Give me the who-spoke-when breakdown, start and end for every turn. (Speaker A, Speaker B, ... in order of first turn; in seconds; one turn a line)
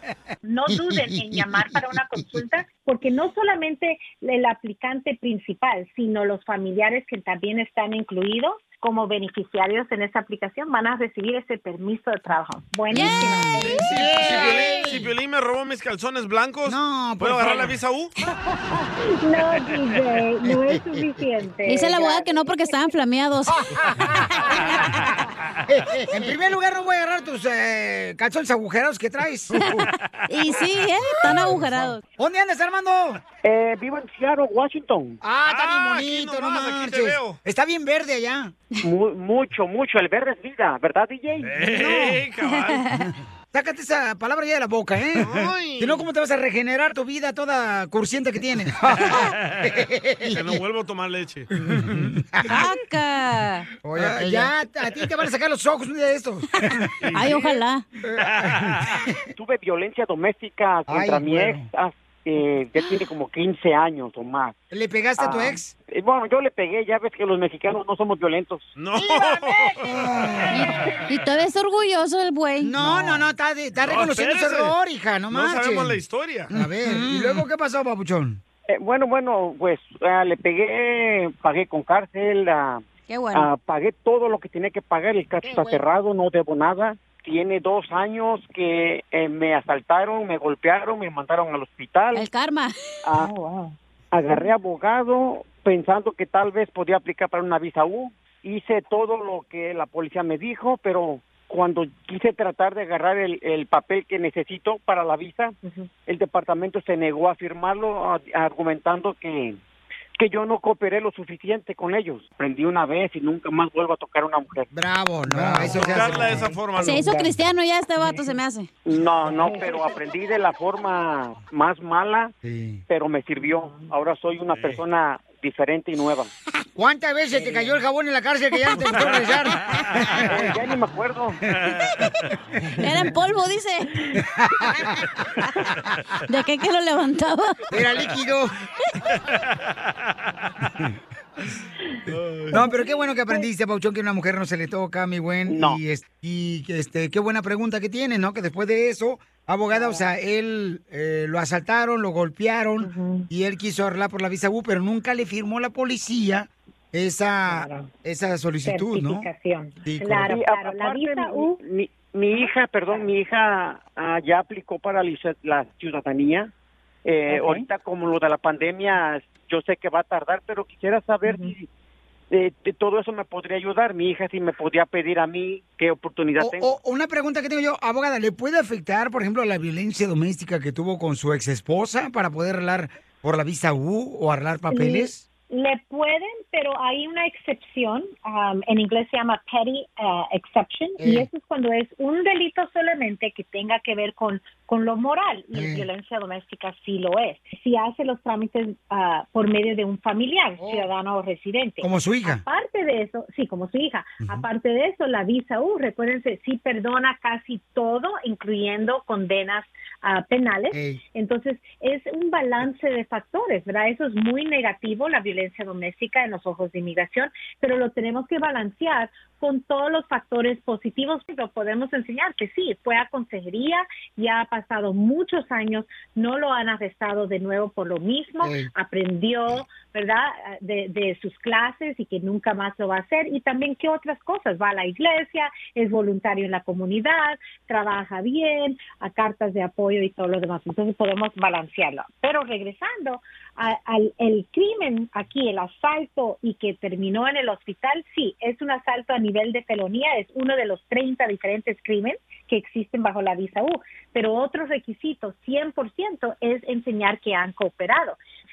Speaker A: 0.4-14.4
Speaker B: 0.8-1.1
Speaker C: 12.9-13.7
Speaker B: 12.9-15.1
Speaker D: 13.5-18.1
Speaker B: 16.7-17.7
Speaker A: 18.7-22.9
Speaker B: 20.4-21.0
Speaker C: 21.6-25.1
Speaker B: 23.6-25.2
Speaker B: 25.7-29.9
Speaker C: 29.6-32.0
Speaker B: 32.2-33.2
Speaker E: 33.4-35.2
Speaker B: 35.2-38.5
Speaker D: 35.5-37.4
Speaker E: 38.8-41.5
Speaker D: 41.4-43.0
Speaker B: 41.7-42.2
Speaker C: 42.7-43.1
Speaker B: 43.5-49.3
Speaker D: 45.1-46.1
Speaker D: 49.0-51.9
Speaker B: 51.6-52.5
Speaker C: 52.5-53.7
Speaker B: 53.8-56.7
Speaker C: 56.6-57.8
Speaker D: 57.0-57.6
Speaker B: 58.0-59.2
Speaker D: 58.2-59.0
Speaker E: 59.4-64.5
Speaker B: 60.9-61.7
Speaker B: 64.7-65.7
Speaker E: 65.2-68.7
Speaker D: 68.8-69.8
Speaker B: 69.0-70.8
Speaker C: 70.5-72.8
Speaker B: 72.6-76.0
Speaker D: 72.9-73.2
Speaker D: 73.8-74.8
Speaker D: 75.3-76.5
Speaker B: 76.5-78.4
Speaker E: 78.7-92.3
Speaker C: 83.1-83.5
Speaker B: 85.4-85.8
Speaker C: 92.1-92.7
Speaker E: 93.0-93.3
Speaker A: 93.2-93.7
Speaker E: 94.1-109.6
Speaker E: 110.1-114.7
Speaker B: 114.7-116.5
Speaker D: 115.3-117.2
Speaker C: 116.8-118.7
Speaker E: 118.8-122.3
Speaker A: 119.4-119.9
Speaker B: 122.4-122.8
Speaker E: 122.9-126.3
Speaker D: 124.5-124.8
Speaker B: 126.8-130.3
Speaker D: 128.8-130.2
Speaker E: 130.3-131.4
Speaker D: 131.5-132.3
Speaker C: 132.8-133.9
Speaker B: 134.4-134.9
Speaker C: 136.3-137.6
Speaker B: 137.7-138.5
Speaker D: 139.1-139.6
Speaker D: 142.1-142.6
Speaker B: 142.5-159.3
Speaker A: 142.5-143.4
Speaker E: 145.4-145.8
Speaker A: 149.7-150.1
Speaker A: 152.8-153.3
Speaker A: 157.4-157.9
Speaker A: 158.6-161.6
Speaker B: 159.8-160.4
Speaker E: 160.2-166.5
Speaker A: 162.3-163.0
Speaker E: 167.0-171.7
Speaker A: 167.3-167.6
Speaker A: 171.2-171.5
Speaker E: 172.3-176.8
Speaker B: 176.4-185.2
Speaker A: 184.7-258.2
Speaker B: 191.0-191.3
Speaker B: 195.5-195.9
Speaker B: 200.6-200.9
Speaker B: 201.8-202.4
Speaker B: 210.7-211.0
Speaker B: 228.4-228.7